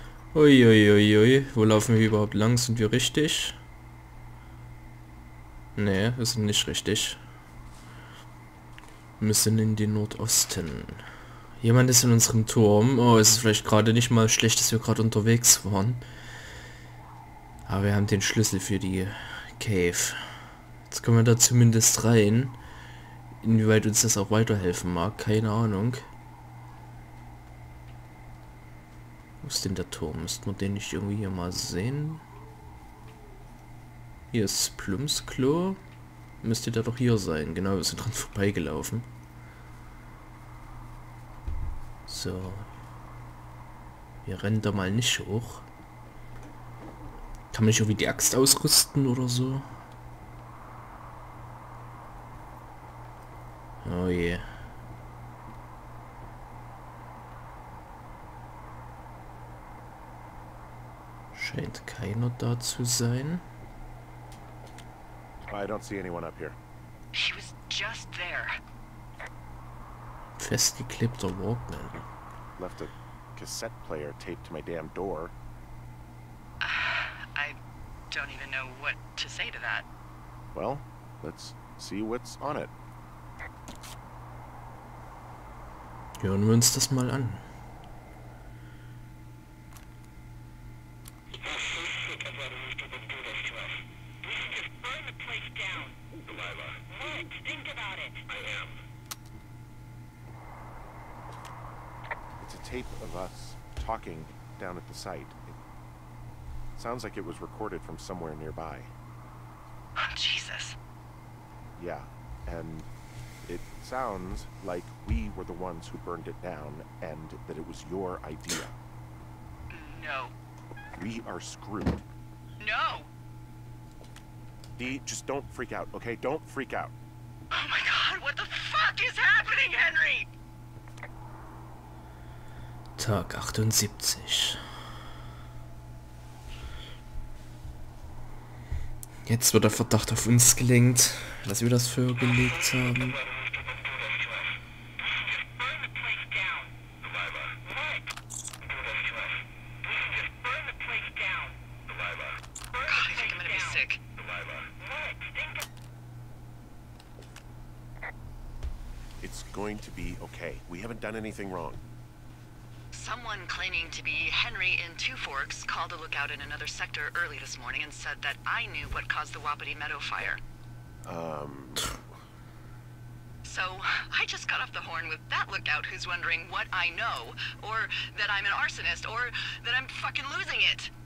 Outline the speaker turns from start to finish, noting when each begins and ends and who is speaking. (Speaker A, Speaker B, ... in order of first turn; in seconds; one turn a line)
Speaker A: 0.3-3.6
Speaker A: 5.8-7.2
Speaker A: 9.2-11.0
Speaker A: 11.6-16.0
Speaker A: 17.7-20.4
Speaker A: 20.9-22.6
Speaker A: 23.4-26.1
Speaker A: 29.4-32.2
Speaker A: 34.3-35.8
Speaker A: 36.4-39.1
Speaker A: 42.1-42.7
Speaker A: 44.2-45.7
Speaker A: 47.5-49.7
Speaker A: 53.8-54.5
Speaker A: 61.3-63.4
Speaker B: 65.5-66.6
Speaker C: 67.1-68.6
Speaker A: 70.4-72.1
Speaker B: 72.6-75.3
Speaker C: 76.6-77.6
Speaker C: 78.1-79.9
Speaker B: 80.5-82.7
Speaker A: 86.2-87.4
Speaker B: 102.4-105.6
Speaker B: 106.8-108.9
Speaker C: 110.0-110.8
Speaker B: 111.8-112.9
Speaker B: 113.5-118.7
Speaker C: 119.7-120.3
Speaker B: 120.9-122.0
Speaker C: 122.6-123.1
Speaker B: 124.8-126.9
Speaker C: 127.5-130.3
Speaker A: 133.0-134.6
Speaker A: 139.3-143.2
Speaker C: 152.8-154.0
Speaker B: 159.2-161.8
Speaker C: 162.9-170.4
Speaker B: 171.1-172.0
Speaker C: 173.4-180.9